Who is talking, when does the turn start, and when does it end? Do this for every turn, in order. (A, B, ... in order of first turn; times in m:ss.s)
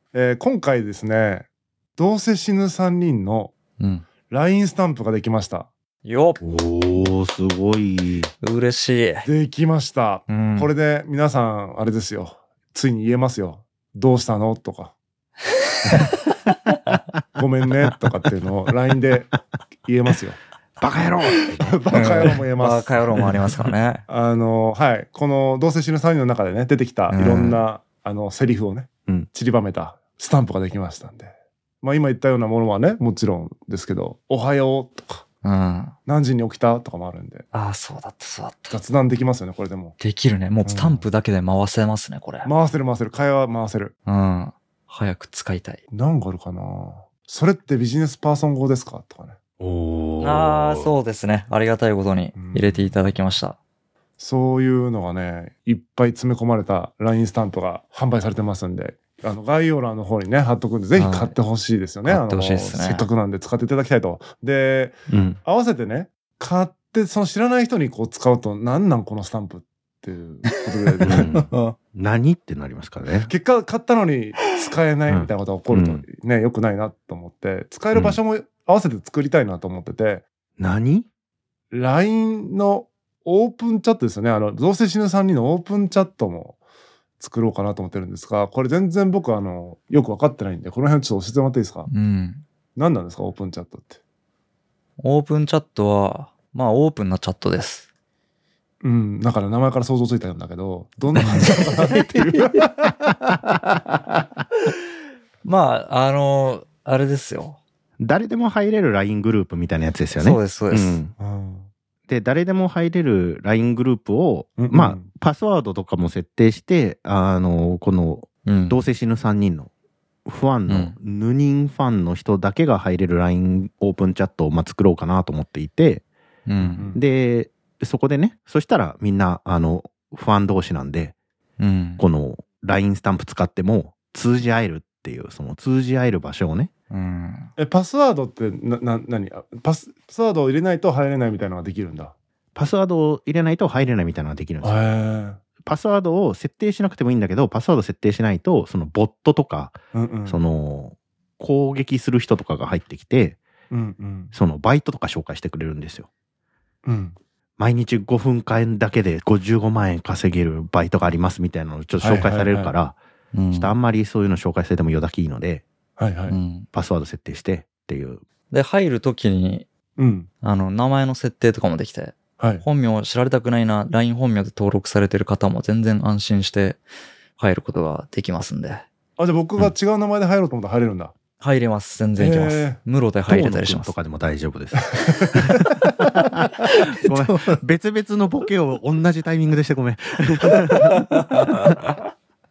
0:00.1-0:03.5 A
0:03.8-0:04.0 B
0:04.3-0:05.7 A
0:06.0-0:06.4 B
0:06.4-0:08.3 C
0:08.4-0:09.3 B
0:09.2-0:15.0 A
0:10.3-0:10.7 B
0:17.4-0:20.4 A
0:20.8-0:21.7 C
0:21.6-0:23.2 A
0:21.9-0:24.0 B
0:24.1-0:35.2 A
0:27.1-0:27.6 B
0:35.4-0:36.0 B
0:36.1-0:37.4 A
0:37.5-0:38.8 B
0:38.7-0:40.0 A
0:40.0-0:42.5 B
0:40.6-0:41.0 A
0:42.4-0:43.9 A
0:44.1-0:45.8 B
0:45.9-0:49.4 A
0:49.6-0:50.9 C
0:50.2-0:53.6 B
0:52.3-0:52.9 A
0:54.2-1:11.5 A
1:01.0-1:01.4 B
1:02.1-1:03.1 B
1:05.1-1:05.4 C
1:11.0-1:11.7 B
1:11.0-1:13.3 C
1:13.3-1:20.2 A
1:15.1-1:16.0 C
1:17.9-1:18.2 C
1:20.6-1:21.1 C
1:21.7-1:26.6 A
1:27.2-1:31.9 A
1:31.9-1:32.4 B
1:32.8-1:34.0 A
1:35.0-1:37.9 B
1:38.8-1:42.7 A
1:41.2-1:41.4 B
1:45.4-1:47.6 B
1:48.0-1:51.2 C
1:50.2-1:51.0 B
1:51.2-1:51.7 A
1:52.1-1:59.7 C
1:54.6-1:55.1 A
1:58.4-1:58.8 B
2:00.3-2:06.0 C
2:00.7-2:01.0 B
2:06.5-2:06.9 B
2:06.6-2:11.2 C
2:06.8-2:07.0 A
2:11.6-2:12.0 B
2:12.0-2:16.7 C
2:16.9-2:17.5 B
2:17.6-2:22.1 A
2:22.6-2:24.8 C
2:24.6-2:25.4 A
2:25.6-2:33.4 C
2:29.9-2:30.4 A
2:33.7-2:34.3 A
2:34.3-2:36.1 C
2:36.8-2:37.2 A
2:37.6-2:43.0 C
2:42.0-2:42.7 A
2:43.3-2:43.7 B
2:43.5-2:45.6 C
2:46.0-2:46.4 A
2:46.3-2:46.7 B
2:46.7-2:48.2 C
2:48.5-2:49.7 B
2:50.0-2:50.3 A
2:50.4-2:56.8 B
2:52.4-2:52.7 A
2:57.4-2:58.9 B
2:59.2-3:01.1 A
3:01.4-3:04.0 B
3:02.2-3:02.8 A
3:03.3-3:05.5 C
3:04.9-3:05.9 A
3:06.1-3:11.1 C